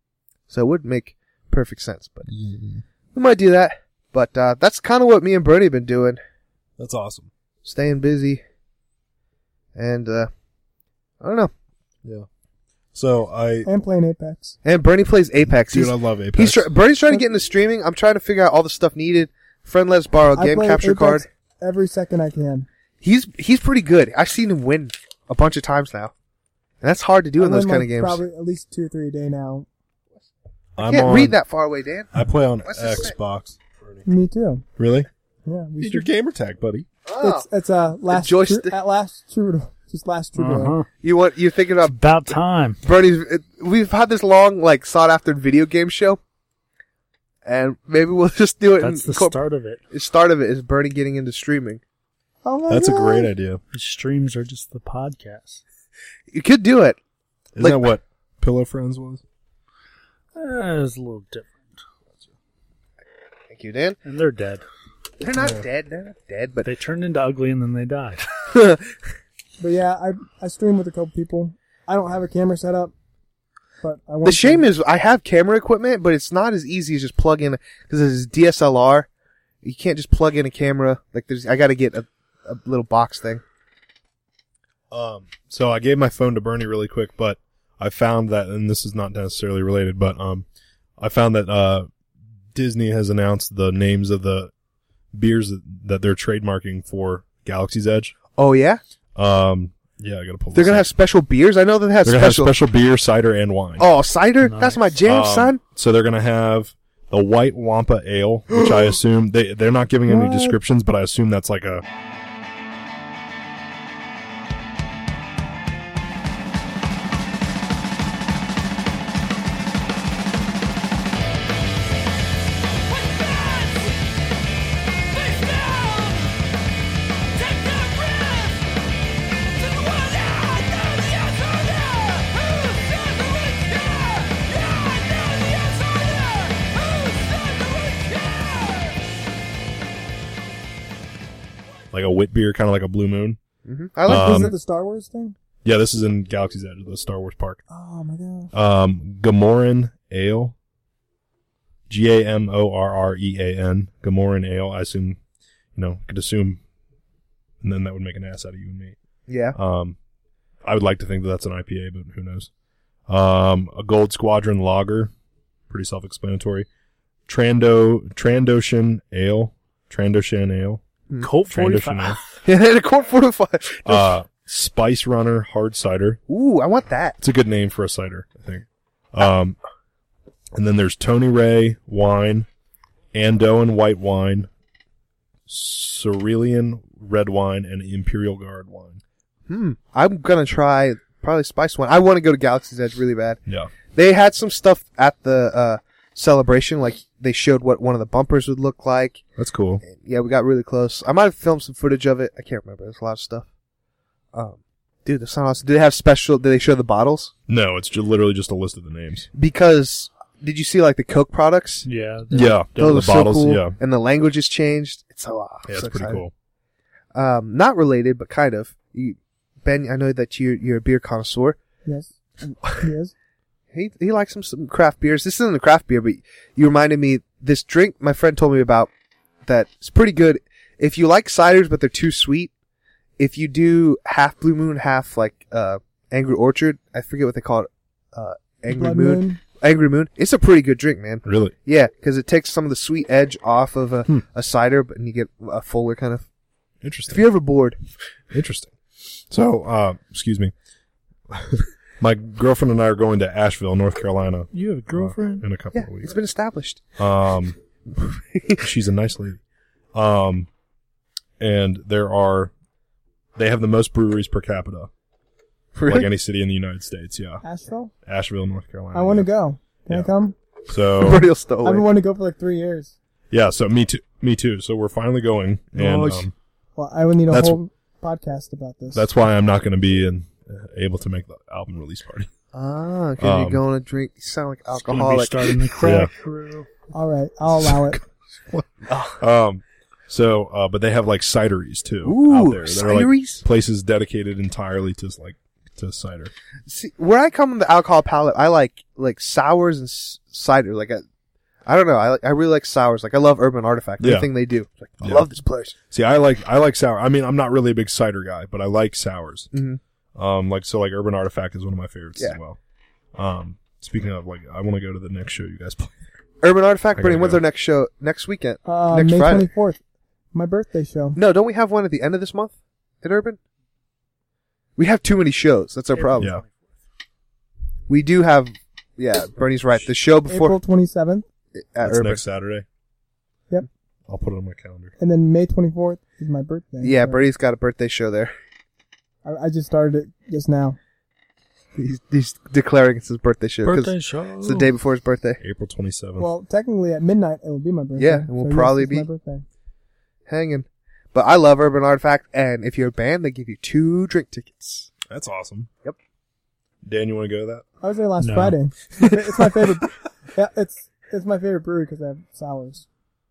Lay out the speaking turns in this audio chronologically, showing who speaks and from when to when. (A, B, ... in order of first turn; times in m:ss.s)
0:00.5-0:02.3 A
0:02.3-0:02.8 B
0:03.1-0:06.2 A
0:06.8-0:07.3 B
0:07.6-0:08.4 A
0:09.8-0:10.3 A
0:11.2-0:11.5 A
0:12.9-0:13.7 B
0:13.6-0:14.6 C
0:14.6-0:21.2 A
0:15.7-0:16.7 B
0:20.3-0:22.7 C
0:23.0-0:26.1 A
0:26.8-0:28.2 A
0:27.4-0:29.7 C
0:30.8-0:31.4 B
0:30.8-0:33.1 A
0:32.1-0:34.0 B
0:34.0-0:34.6 C
0:34.8-0:35.1 B
0:35.4-0:36.1 C
0:35.8-0:36.9 B
0:37.0-0:37.5 A
0:37.2-0:40.7 C
0:38.1-0:38.7 A
0:40.4-0:40.9 D
0:41.0-0:42.0 A
0:41.8-0:42.8 D
0:42.8-0:46.2 A
0:47.4-0:49.4 A
0:48.8-0:49.8 D
0:49.9-0:51.8 A
0:52.4-0:53.3 C
0:52.7-0:53.6 B
0:53.7-0:55.6 D
0:56.3-0:57.0 A
0:57.6-0:59.2 B
1:00.3-1:01.8 D
1:03.5-1:04.0 A
1:04.0-1:04.6 D
1:05.2-1:06.7 A
1:05.4-1:05.6 B
1:06.6-1:08.3 D
1:08.5-1:08.8 A
1:09.6-1:12.9 C
1:13.8-1:14.6 C
1:14.2-1:19.1 A
1:19.6-1:23.4 A
1:24.9-1:30.4 B
1:31.0-1:31.9 B
1:32.5-1:34.5 B
1:35.1-1:38.2 B
1:38.4-1:38.8 A
1:39.1-1:40.8 B
1:40.5-1:42.5 A
1:42.0-1:43.8 B
1:43.8-1:45.6 A
1:44.4-1:44.9 D
1:45.0-1:51.8 B
1:50.1-1:50.6 C
2:21.9-2:23.4 B
2:23.6-2:24.6 A
2:24.0-2:24.5 B
2:24.0-2:25.4 C
2:25.6-2:27.6 B
2:27.7-2:28.5 C
2:28.5-2:30.5 B
2:31.9-2:35.2 B
2:35.7-2:36.6 B
2:37.6-2:39.0 B
2:39.3-2:39.6 A
2:39.5-2:40.0 B
2:40.6-2:42.5 B
2:43.1-2:45.1 B
2:45.7-2:46.7 B
2:47.3-2:50.8 B
2:51.2-2:52.4 D
2:51.5-2:52.2 B
2:52.4-2:54.1 A
2:53.8-2:56.2 B
2:56.3-2:57.2 A
2:57.2-2:59.6 B
3:00.5-3:02.5 B
3:03.1-3:04.5 B
3:05.5-3:09.0 B
3:09.5-3:13.4 A
3:13.5-3:13.7 B
3:13.9-3:19.2 A
3:19.4-3:19.8 B
3:19.8-3:23.5 A
3:24.3-3:27.3 A
3:27.5-3:29.3 B
3:29.3-3:31.8 A
3:31.8-3:33.1 D
3:32.3-3:33.8 B
3:32.8-3:36.2 A
3:35.6-3:36.3 B
3:37.1-3:41.6 A
3:41.8-3:42.1 C
3:42.4-3:42.9 A
3:42.8-3:43.1 C
3:43.7-3:48.9 A
3:49.4-3:52.5 A
3:53.2-4:06.3 A
3:58.7-3:59.4 C
4:01.2-4:01.5 B
4:06.8-4:07.2 B
4:07.1-4:07.8 A
4:08.3-4:08.8 B
4:09.3-4:10.5 B
4:11.3-4:16.1 B
4:14.5-4:15.4 D
4:15.7-4:16.8 A
4:17.0-4:17.6 B
4:18.0-4:18.6 A
4:18.6-4:19.4 B
4:19.9-4:20.5 B
4:21.4-4:22.5 B
4:23.4-4:24.9 B
4:25.7-4:26.1 A
4:25.8-4:27.4 B
4:27.4-4:27.9 C
4:28.0-4:29.3 B
4:28.9-4:30.4 C
4:30.7-4:31.3 B
4:31.0-4:31.8 A
4:31.6-4:32.9 C
4:33.3-4:36.3 B
4:35.8-4:36.2 D
4:36.8-4:39.0 C
4:37.3-4:37.6 B
4:38.9-4:42.3 B
4:42.5-4:45.5 A
4:43.2-4:43.6 B
4:44.7-4:46.7 D
4:45.8-4:46.1 B
4:46.9-4:48.0 C
4:47.6-4:48.0 B
4:48.9-4:49.2 A
4:49.2-4:56.3 B
4:52.0-4:53.4 A
4:56.7-5:01.0 A
5:01.6-5:05.8 A
5:04.0-5:04.3 B
5:05.0-5:05.3 B
5:05.9-5:09.5 B
5:09.5-5:09.8 A
5:10.2-5:12.6 B
5:13.1-5:16.1 B
5:16.4-5:19.5 A
5:17.0-5:17.4 B
5:18.6-5:19.8 C
5:20.3-5:21.2 C
5:21.2-5:23.4 A
5:24.8-5:26.3 A
5:25.9-5:26.8 D
5:26.2-5:26.4 B
5:27.9-5:30.6 A
5:30.3-5:31.2 C
5:31.6-5:32.2 A
5:31.8-5:32.6 B
5:34.1-5:34.9 B
5:35.0-5:37.2 C
5:36.8-5:38.3 A
5:39.2-5:40.8 C
5:41.8-5:45.4 A
5:43.6-5:44.7 D
5:45.4-5:46.3 B
5:46.2-5:49.4 C
5:48.0-5:49.1 A
5:50.3-5:54.9 A
5:55.1-5:55.7 B
5:56.8-5:57.6 B
5:57.8-6:02.8 C
5:58.2-5:58.6 D